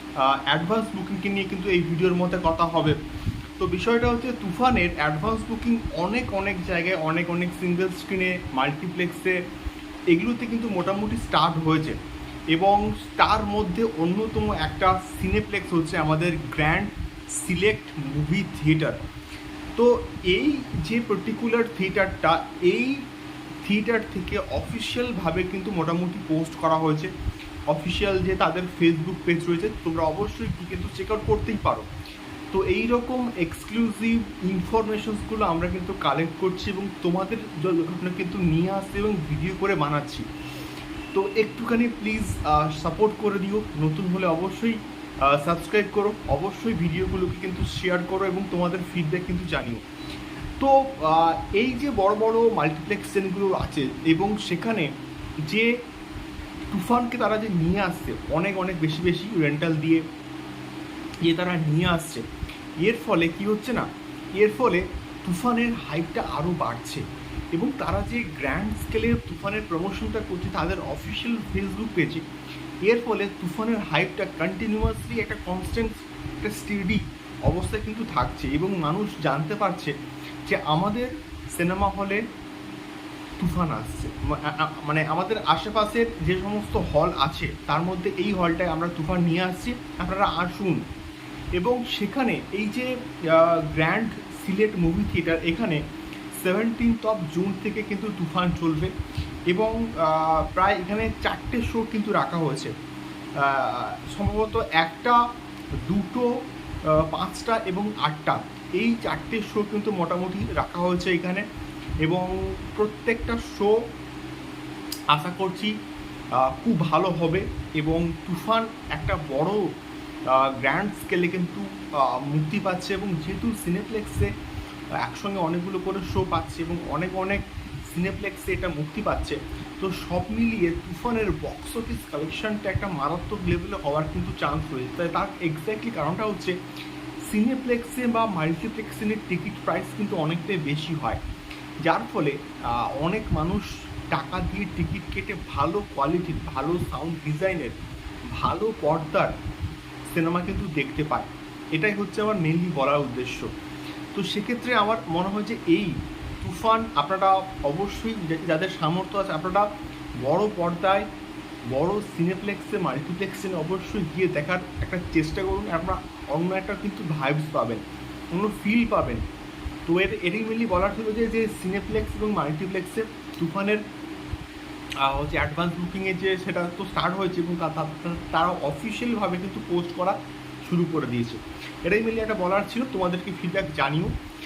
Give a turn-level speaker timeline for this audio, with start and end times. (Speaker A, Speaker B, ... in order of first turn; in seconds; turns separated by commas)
Speaker A: 0.2-3.0, Speaker A: 3.6-9.4, Speaker A: 10.1-12.0, Speaker A: 12.5-19.0, Speaker A: 19.8-23.0, Speaker A: 23.6-27.1, Speaker A: 27.7-31.9, Speaker A: 32.5-40.2, Speaker A: 41.1-49.9, Speaker A: 50.6-54.9, Speaker A: 55.5-55.7, Speaker A: 56.7-60.0, Speaker A: 61.2-62.2, Speaker A: 62.8-72.3, Speaker A: 72.8-79.9, Speaker A: 80.5-82.2, Speaker A: 83.4-90.8, Speaker A: 91.6-95.8, Speaker A: 96.4-98.9, Speaker A: 99.5-102.7, Speaker A: 103.4-105.2, Speaker A: 105.9-106.3, Speaker A: 106.9-111.5, Speaker A: 112.0-113.8, Speaker A: 115.1-115.7, Speaker A: 116.3-119.6, Speaker A: 120.3-124.3, Speaker A: 125.0-136.6, Speaker A: 137.2-141.2, Speaker A: 141.8-147.8, Speaker A: 148.3-149.3, Speaker A: 150.1-153.5, Speaker A: 154.2-159.7, Speaker A: 160.2-161.1, Speaker A: 161.7-167.8, Speaker A: 168.3-169.2, Speaker A: 169.9-173.8, Speaker A: 175.0-184.1